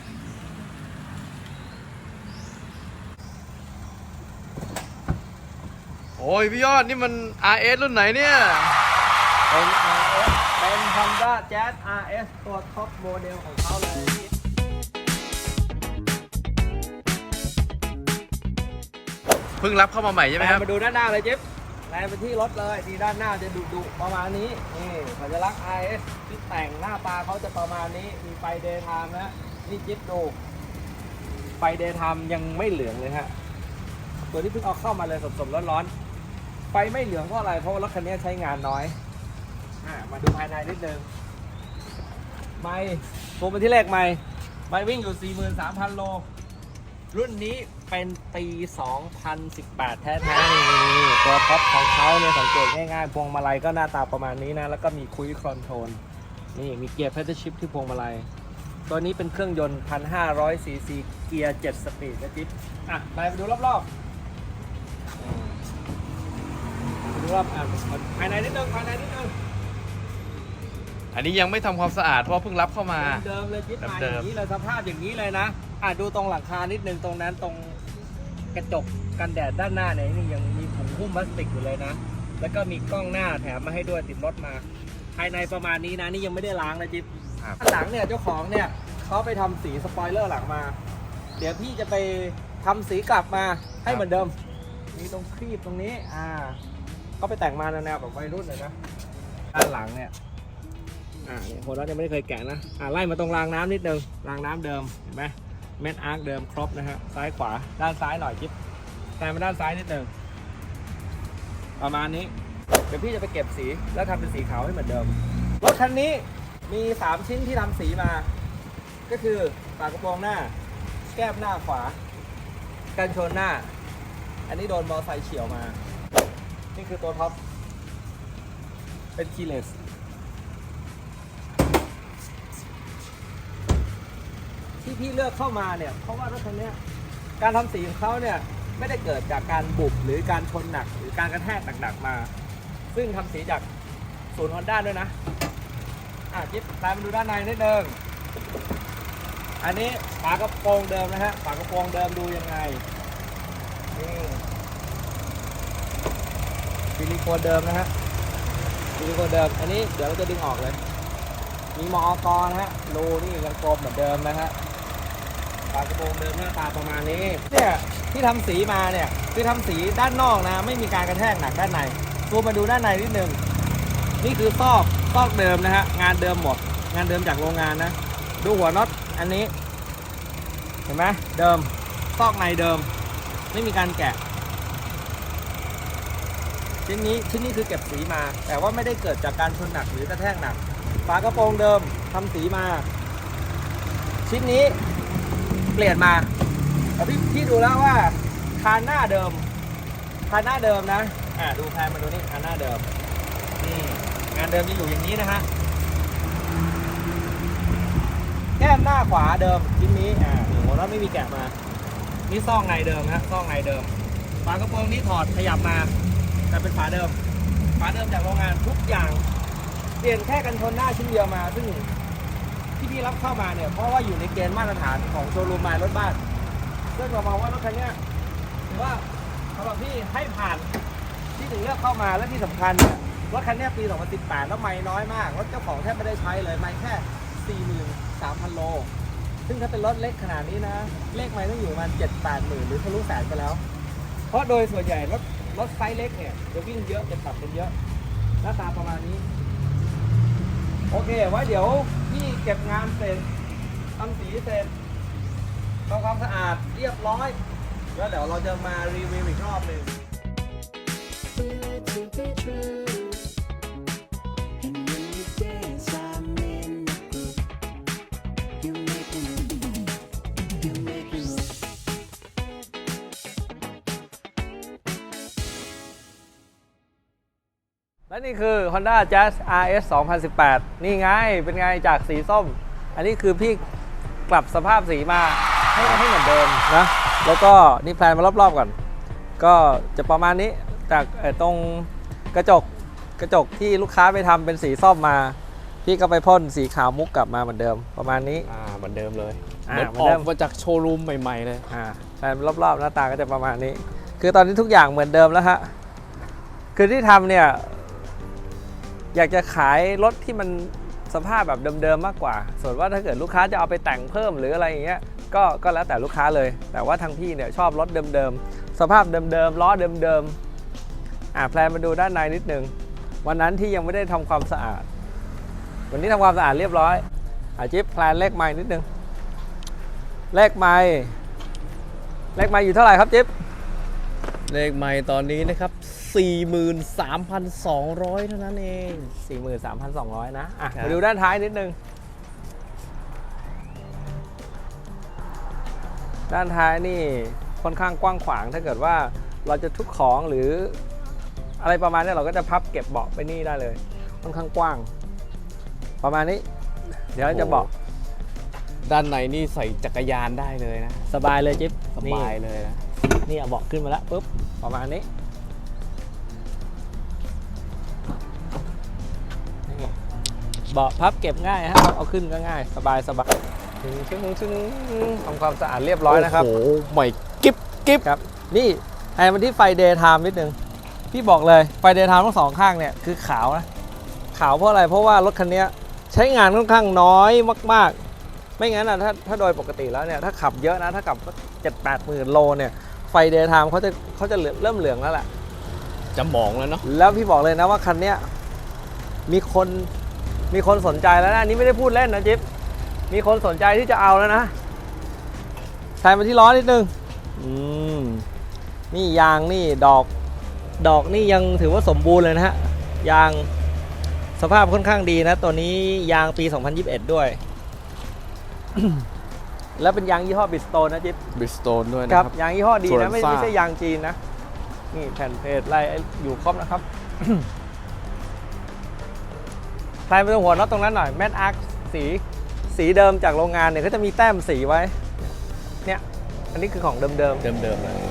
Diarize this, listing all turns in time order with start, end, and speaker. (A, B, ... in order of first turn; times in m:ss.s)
0:06.2-0:08.8 A
0:09.5-0:14.3 B
0:19.6-0:20.6 A
0:20.4-0:30.4 B
0:31.6-0:33.3 B
0:34.3-0:35.9 B
0:36.7-0:39.0 B
0:39.8-0:41.1 B
0:42.6-0:46.3 B
0:47.1-0:56.0 B
0:56.5-0:58.3 B
0:58.9-1:03.9 B
1:05.2-1:05.6 B
1:07.0-1:09.3 B
1:11.1-1:13.2 A
1:13.0-1:17.8 B
1:13.8-1:14.3 A
1:18.5-1:30.8 B
1:31.4-1:34.3 B
1:34.9-1:36.6 B
1:37.2-1:38.8 B
1:39.5-1:40.1 B
1:41.2-1:48.5 B
1:49.2-1:50.1 B
1:51.8-1:52.3 B
1:52.9-1:58.3 B
1:59.1-2:00.5 B
2:01.1-2:02.0 B
2:03.0-2:03.7 B
2:04.5-2:05.8 B
2:06.7-2:07.4 B
2:09.2-2:09.8 B
2:14.8-2:16.8 B
2:17.4-2:22.3 B
2:22.9-2:23.7 B
2:24.3-2:25.1 B
2:26.3-2:28.0 B
2:29.6-2:32.8 B
2:33.9-2:34.4 B
2:37.0-2:37.9 B
2:39.0-2:40.8 B
2:41.8-2:44.6 B
2:45.7-2:53.4 B
2:54.2-2:59.5 B
3:00.9-3:02.9 B
3:03.5-3:04.2 B
3:06.8-3:12.9 B
3:14.2-3:14.8 B
3:15.7-3:16.3 B
3:17.0-3:19.5 B
3:20.3-3:22.9 B
3:23.6-3:25.5 B
3:28.6-3:31.6 B
3:32.3-3:35.9 B
3:36.5-3:37.2 B
3:37.8-3:39.2 B
3:40.0-3:41.9 B
3:42.8-3:46.2 B
3:46.9-3:48.0 B
3:48.7-3:50.7 B
3:51.4-3:58.9 B
3:59.5-4:03.6 B
4:04.3-4:07.7 B
4:08.4-4:09.2 B
4:10.9-4:13.3 B
4:14.0-4:14.7 B
4:15.9-4:17.4 B
4:17.9-4:19.9 B
4:21.4-4:23.1 C
4:24.6-4:27.3 C
4:28.6-4:29.7 C
4:30.6-4:31.5 C
4:38.1-4:43.6 B
4:44.3-4:48.8 B
4:49.4-4:58.5 B
4:58.5-5:01.6 A
4:59.7-5:00.3 B
5:01.7-5:05.7 B
5:06.8-5:08.1 B
5:09.1-5:20.4 B
5:21.3-5:22.7 B
5:23.2-5:24.9 B
5:25.9-5:27.0 B
5:27.6-5:28.9 B
5:30.3-5:31.2 B
5:32.4-5:33.3 B
5:34.5-5:39.1 A
5:39.2-5:41.8 B
5:46.3-5:50.8 B
5:51.6-5:54.9 B
5:56.0-5:56.4 B
5:57.1-5:57.7 B
5:57.2-5:57.7 A
5:58.8-6:01.0 A
6:01.1-6:02.4 B
6:01.9-6:02.8 A
6:03.2-6:05.1 B
6:09.7-6:09.9 B
6:10.7-6:13.3 B
6:13.8-6:16.5 B
6:16.1-6:18.0 A
6:18.0-6:20.6 B
6:21.1-6:23.7 B
6:24.3-6:28.0 B
6:28.6-6:35.3 B
6:36.1-6:36.8 A
6:36.8-6:38.2 B
6:39.3-6:39.9 B
6:40.5-6:42.4 B
6:43.1-6:44.5 B
6:46.0-6:48.3 B
6:48.9-6:50.1 B
6:50.8-6:53.5 B
6:54.4-6:57.4 B
6:58.8-6:59.1 B
6:59.8-7:01.2 B
7:01.4-7:03.6 A
7:02.1-7:04.2 B
7:04.9-7:07.5 B
7:10.1-7:14.9 B
7:15.8-7:17.4 B
7:17.4-7:18.0 A